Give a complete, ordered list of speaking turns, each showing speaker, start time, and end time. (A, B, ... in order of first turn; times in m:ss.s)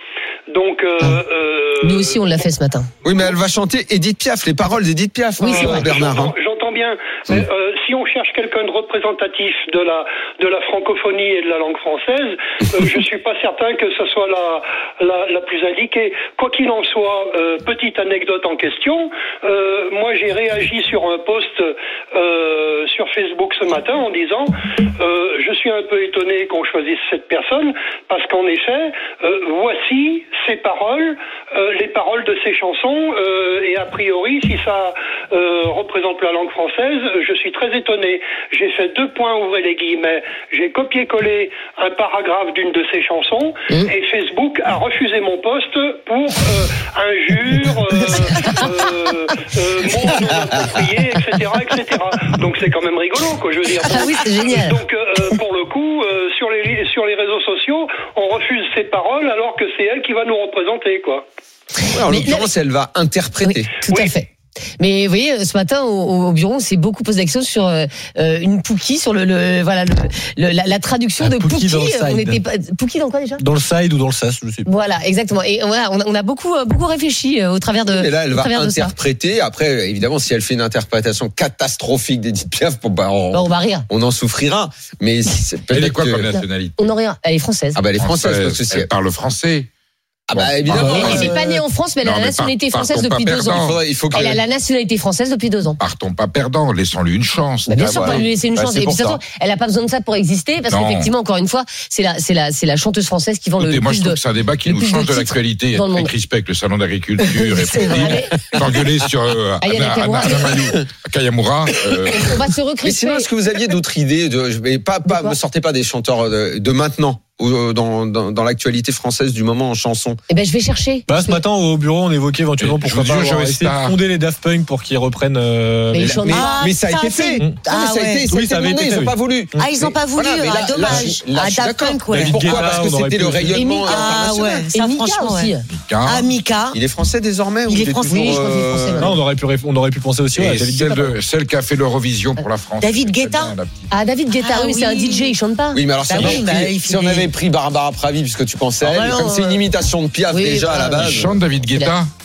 0:00.5-0:02.1 A
0:01.8-0:02.9 B
0:03.0-0:06.3 C
0:05.4-0:05.9 B
0:05.6-0:24.5 A
0:25.0-1:01.2 A
0:53.9-0:54.8 D
1:01.9-1:03.7 C
1:02.1-1:02.5 B
1:03.4-1:13.4 B
1:03.9-1:04.2 A
1:11.2-1:12.4 E
1:13.4-1:14.7 E
1:14.7-1:18.9 B
1:17.9-1:26.3 C
1:23.3-1:23.9 B
1:25.7-1:26.8 F
1:26.3-1:27.8 B
1:27.8-1:28.9 C
1:27.9-1:29.7 F
1:30.3-1:31.6 C
1:30.3-1:31.3 F
1:30.8-1:35.8 B
1:32.0-1:33.8 F
1:33.5-1:34.4 C
1:35.8-1:39.2 F
1:37.7-1:46.1 B
1:37.8-1:38.3 C
1:40.7-1:41.1 F
1:43.6-1:52.4 F
1:47.2-1:48.1 D
1:47.8-1:48.4 B
1:48.1-1:49.0 C
1:49.6-1:50.6 B
1:52.1-1:53.3 B
1:52.8-2:00.2 C
1:55.0-1:55.4 B
2:00.3-2:01.4 B
2:01.1-2:06.3 E
2:02.6-2:04.0 F
2:05.9-2:06.6 B
2:06.0-2:14.7 C
2:06.3-2:08.3 D
2:08.3-2:09.7 E
2:09.6-2:12.7 D
2:12.1-2:13.8 E
2:13.6-2:14.0 B
2:13.6-2:15.5 D
2:14.7-2:15.7 B
2:15.7-2:16.3 F
2:16.0-2:16.8 D
2:16.7-2:19.2 C
2:17.7-2:18.3 D
2:18.1-2:19.2 B
2:19.0-2:21.2 E
2:20.4-2:23.9 F
2:22.8-2:23.6 D
2:23.9-2:25.8 B
2:24.3-2:25.4 D
2:25.7-2:31.4 C
2:26.1-2:27.3 D
2:28.8-2:29.7 D
2:30.3-2:31.9 B
2:31.0-2:32.1 F